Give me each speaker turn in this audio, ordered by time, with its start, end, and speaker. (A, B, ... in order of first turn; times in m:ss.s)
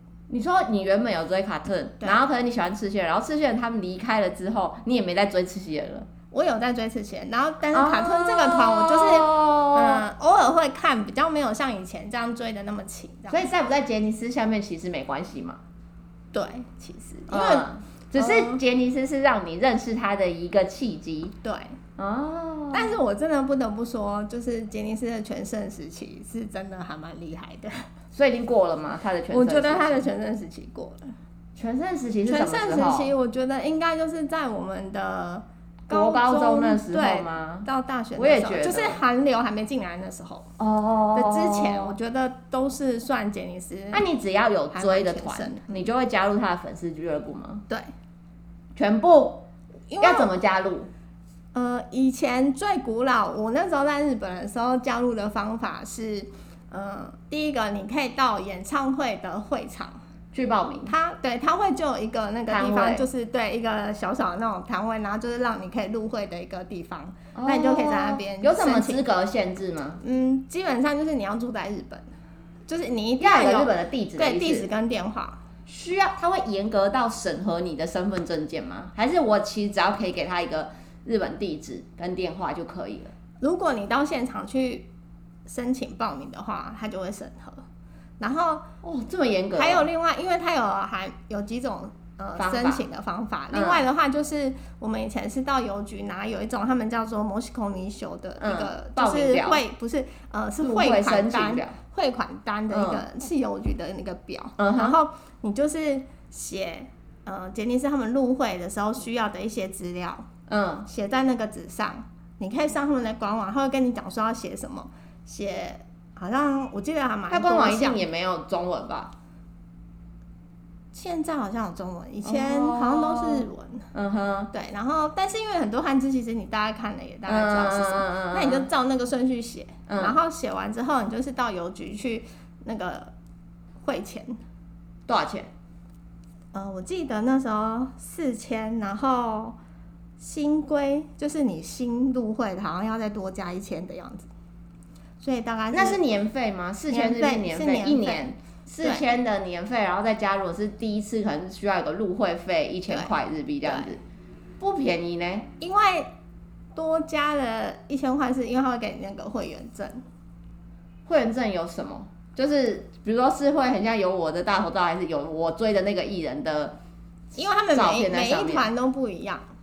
0:00.3-0:06.1 A
0:06.3-0:13.5 B
0:07.7-0:10.0 A
0:13.3-0:15.6 A
0:16.3-0:18.6 B
0:17.3-0:21.4 A
0:21.4-0:21.8 B
0:22.0-0:23.0 A
0:22.7-0:27.8 B
0:28.1-0:30.1 A
0:29.3-0:31.1 B
0:31.6-0:33.1 A
0:32.2-0:40.5 B
0:35.9-0:39.0 A
0:40.6-0:42.0 A
0:41.1-0:44.0 B
0:43.9-0:47.6 A
0:44.7-0:45.9 B
0:48.8-0:49.4 A
0:49.9-0:50.3 B
0:50.0-0:50.9 A
0:51.5-1:00.0 B
1:00.3-1:00.9 A
1:00.9-1:09.0 B
1:02.5-1:03.1 A
1:07.4-1:10.0 A
1:10.0-1:12.1 B
1:12.7-1:15.4 B
1:13.2-1:14.7 A
1:15.7-1:23.1 A
1:23.4-1:24.9 B
1:25.5-1:27.6 B
1:28.2-1:28.7 B
1:28.8-1:29.9 A
1:29.6-1:50.3 B
1:32.4-1:32.8 A
1:33.5-1:33.8 A
1:38.4-1:39.6 A
1:40.6-1:41.8 A
1:42.7-1:43.0 A
1:44.6-1:45.0 A
1:50.5-1:50.9 A
1:50.9-1:58.0 B
1:57.3-1:59.1 A
2:00.9-2:03.9 B
2:02.2-2:04.5 A
2:04.5-2:13.1 B
2:07.3-2:08.7 A
2:09.9-2:10.2 A
2:13.8-2:14.4 B
2:15.1-2:15.5 A
2:16.5-2:19.6 B
2:20.2-2:24.3 B
2:25.2-2:26.0 B
2:25.7-2:34.0 A
2:26.9-2:28.2 B
2:33.6-2:33.9 B
2:34.6-2:35.5 A
2:35.6-2:36.1 B
2:36.8-2:40.0 B
2:41.1-2:46.8 A
2:47.4-2:49.4 B
2:47.7-2:48.7 A